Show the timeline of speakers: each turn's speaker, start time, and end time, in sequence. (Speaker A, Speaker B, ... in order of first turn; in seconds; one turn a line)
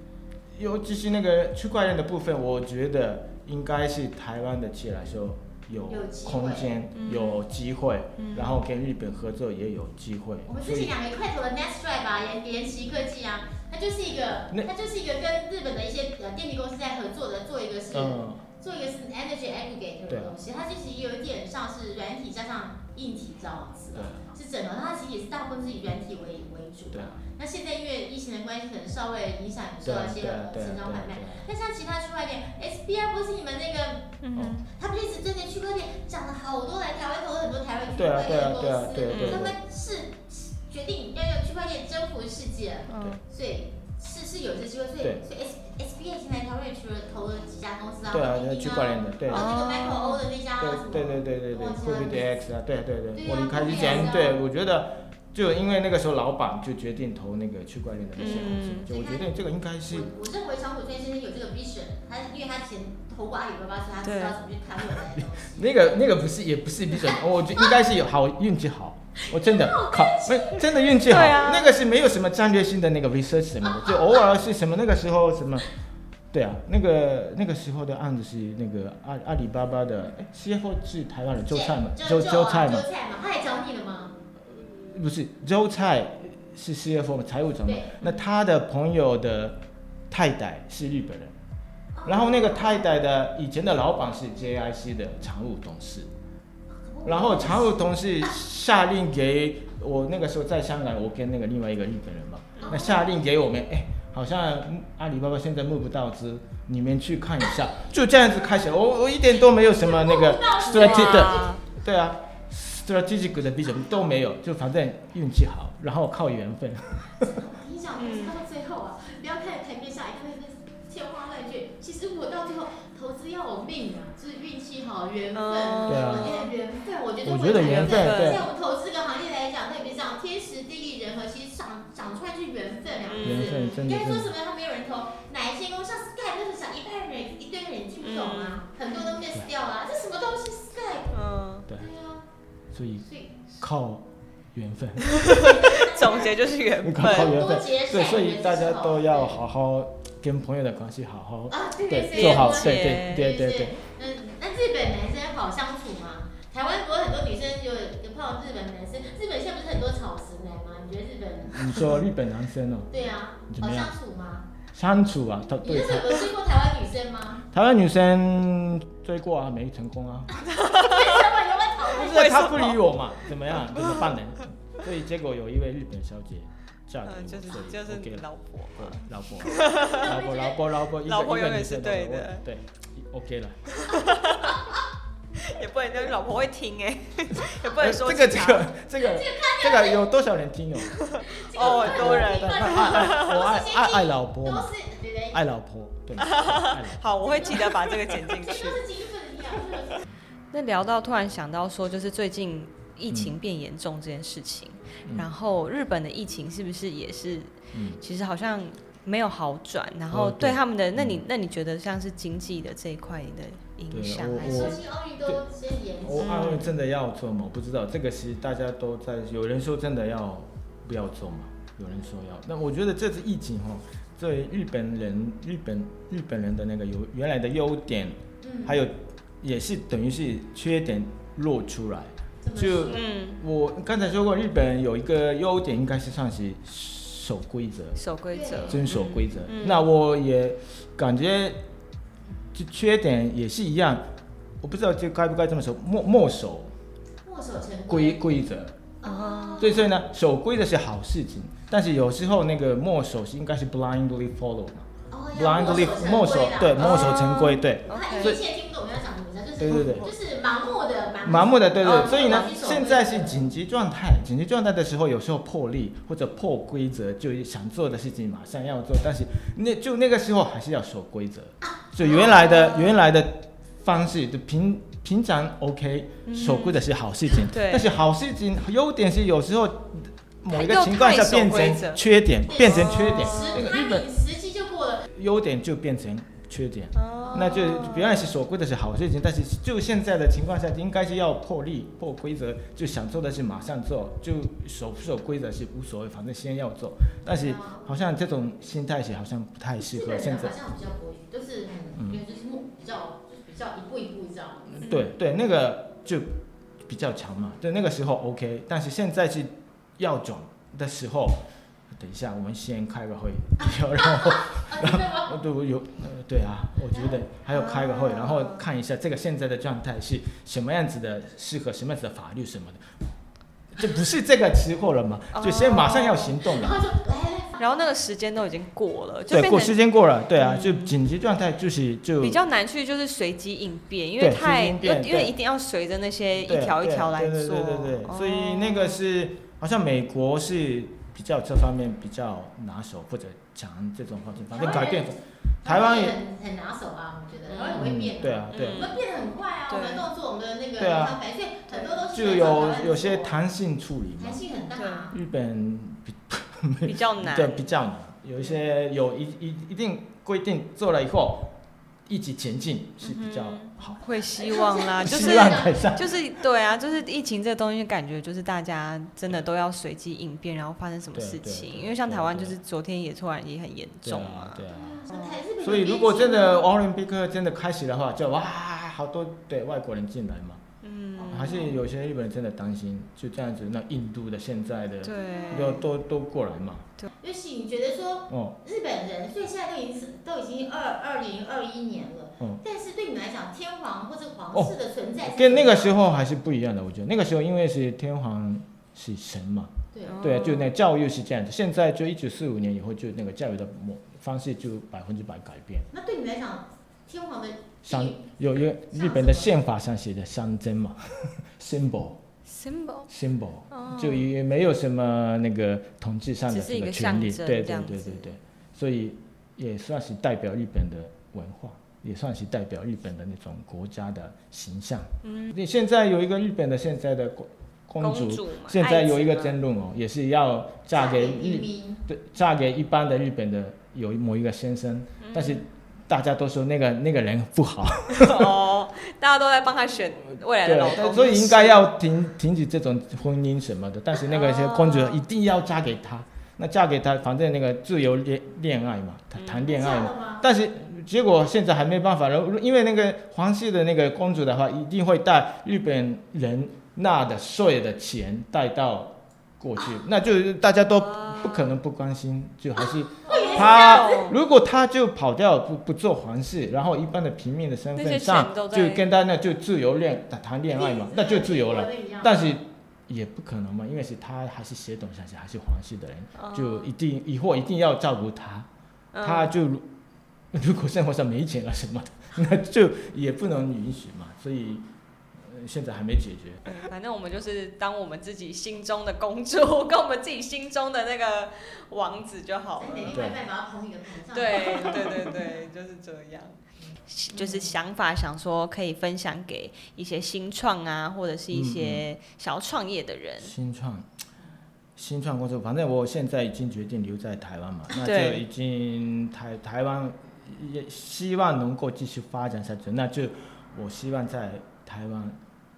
Speaker A: 0.6-10.9
Speaker B: 5.9-6.7
Speaker C: 7.0-7.5
Speaker C: 8.2-8.6
Speaker B: 10.5-34.2
Speaker A: 17.9-18.4
Speaker A: 20.1-20.4
Speaker A: 23.9-24.3
Speaker A: 26.9-27.2
Speaker A: 29.8-31.4
Speaker C: 34.2-34.6
Speaker A: 34.4-34.6
Speaker B: 34.7-52.4
Speaker A: 37.9-39.6
Speaker C: 39.1-39.5
Speaker C: 42.9-43.2
Speaker A: 48.1-49.5
Speaker C: 49.3-50.2
Speaker A: 50.6-60.1
Speaker B: 53.1-54.4
Speaker C: 58.2-58.9
Speaker B: 58.2-59.3
Speaker B: 59.9-65.8
Speaker C: 64.0-64.4
Speaker A: 64.9-75.7
Speaker B: 66.9-67.9
Speaker B: 69.2-71.6
Speaker C: 71.1-71.7
Speaker B: 73.6-74.3
Speaker A: 76.3-82.9
Speaker B: 81.5-84.2
Speaker A: 84.4-91.3
Speaker B: 87.7-88.0
Speaker B: 92.0-92.8
Speaker A: 92.0-96.1
Speaker B: 96.7-98.3
Speaker A: 97.0-117.4
Speaker B: 102.6-103.1
Speaker B: 109.5-111.5
Speaker C: 110.6-111.6
Speaker B: 117.2-141.2
Speaker C: 118.0-118.4
Speaker C: 125.3-126.5
Speaker A: 125.8-126.4
Speaker A: 127.2-128.5
Speaker C: 127.5-128.4
Speaker C: 133.1-133.8
Speaker A: 133.2-134.3
Speaker C: 138.0-139.1
Speaker C: 141.1-141.7
Speaker B: 141.7-142.2
Speaker A: 142.7-143.1
Speaker B: 143.1-143.4
Speaker A: 143.6-145.2
Speaker C: 145.1-147.4
Speaker B: 145.3-146.4
Speaker A: 146.8-153.8
Speaker B: 147.0-149.4
Speaker B: 151.5-161.9
Speaker C: 152.1-153.3
Speaker A: 161.5-163.9
Speaker B: 162.9-164.5
Speaker A: 164.7-166.2
Speaker B: 165.6-167.4
Speaker A: 167.5-170.4
Speaker B: 170.5-172.6
Speaker C: 170.5-171.2
Speaker A: 171.9-183.8
Speaker C: 172.0-172.8
Speaker C: 177.1-180.1
Speaker B: 179.6-180.7
Speaker C: 181.1-182.4
Speaker C: 183.7-184.7
Speaker C: 185.4-188.7
Speaker A: 187.4-194.7
Speaker B: 189.0-190.1
Speaker C: 190.9-193.3
Speaker B: 191.2-195.5
Speaker A: 195.3-197.1
Speaker C: 196.2-198.8
Speaker B: 197.2-200.0
Speaker C: 200.5-214.8
Speaker A: 203.1-203.4
Speaker A: 207.7-208.0
Speaker A: 210.1-211.2
Speaker A: 213.9-215.4
Speaker B: 214.4-216.3
Speaker A: 216.0-238.0
Speaker C: 216.2-216.7
Speaker B: 228.4-228.8
Speaker B: 232.4-233.1
Speaker C: 232.9-233.4
Speaker C: 238.0-239.9
Speaker B: 238.3-238.9
Speaker A: 238.7-241.6
Speaker A: 242.5-244.1
Speaker A: 244.6-246.7
Speaker B: 247.2-248.3
Speaker A: 247.9-248.8
Speaker B: 249.0-249.8
Speaker C: 249.0-249.8
Speaker A: 249.6-258.4
Speaker B: 255.1-263.4
Speaker C: 256.8-258.4
Speaker A: 259.6-260.1
Speaker C: 259.7-260.1
Speaker A: 261.2-284.1
Speaker C: 261.8-262.6
Speaker B: 271.6-272.9
Speaker C: 276.3-277.9
Speaker C: 280.5-283.7
Speaker B: 282.5-285.1
Speaker A: 285.1-300.6
Speaker C: 286.9-288.2
Speaker B: 287.2-287.5
Speaker B: 297.3-297.9
Speaker B: 299.8-304.9
Speaker A: 304.8-306.3
Speaker C: 304.8-305.1
Speaker A: 306.9-322.9
Speaker B: 313.6-315.4
Speaker B: 316.9-317.2
Speaker C: 317.5-318.6
Speaker A: 323.8-326.9
Speaker C: 325.3-326.4
Speaker B: 326.5-327.6
Speaker C: 327.6-329.8
Speaker A: 329.3-332.4
Speaker C: 330.4-330.9
Speaker C: 332.2-339.0
Speaker A: 334.2-335.3
Speaker A: 336.4-346.2
Speaker B: 344.5-353.4
Speaker C: 347.5-347.9
Speaker A: 347.7-348.8
Speaker C: 348.5-349.0
Speaker C: 349.7-350.1
Speaker A: 350.8-351.2
Speaker A: 352.1-354.4
Speaker B: 354.2-355.2
Speaker C: 354.8-355.1
Speaker A: 355.1-361.5
Speaker C: 356.8-357.7
Speaker A: 362.1-364.0
Speaker C: 363.0-375.4
Speaker B: 364.1-366.0
Speaker A: 365.0-366.0
Speaker A: 371.1-372.6
Speaker A: 374.0-375.0
Speaker B: 374.7-376.7
Speaker A: 375.6-380.6
Speaker C: 380.8-381.7
Speaker B: 381.2-381.8
Speaker A: 381.3-386.9
Speaker C: 385.0-385.8
Speaker B: 385.2-385.8
Speaker B: 387.2-396.0
Speaker A: 388.3-388.6
Speaker A: 394.5-405.9
Speaker B: 399.9-400.2
Speaker C: 400.1-400.7
Speaker B: 405.9-408.3
Speaker A: 407.9-412.2
Speaker B: 408.9-409.5
Speaker C: 412.5-413.1
Speaker A: 413.1-438.6
Speaker C: 413.7-414.3
Speaker C: 416.5-418.3
Speaker C: 425.2-425.6
Speaker C: 428.0-429.6
Speaker B: 430.9-432.0
Speaker C: 435.2-435.7
Speaker C: 438.1-441.9
Speaker A: 440.6-478.7
Speaker C: 444.2-445.2
Speaker C: 449.4-449.7
Speaker B: 449.6-450.5
Speaker C: 461.0-461.7
Speaker B: 463.2-464.3
Speaker C: 463.3-464.4
Speaker C: 467.9-469.1
Speaker B: 470.7-472.5
Speaker C: 476.4-476.9
Speaker C: 479.1-479.5
Speaker A: 479.2-479.9
Speaker A: 480.5-484.9
Speaker A: 485.4-486.8
Speaker C: 486.6-493.2
Speaker B: 492.8-495.4
Speaker A: 493.1-493.4
Speaker C: 494.3-503.5
Speaker B: 496.8-497.8
Speaker A: 501.5-502.1
Speaker A: 503.4-504.1
Speaker A: 505.0-515.4
Speaker C: 507.9-508.4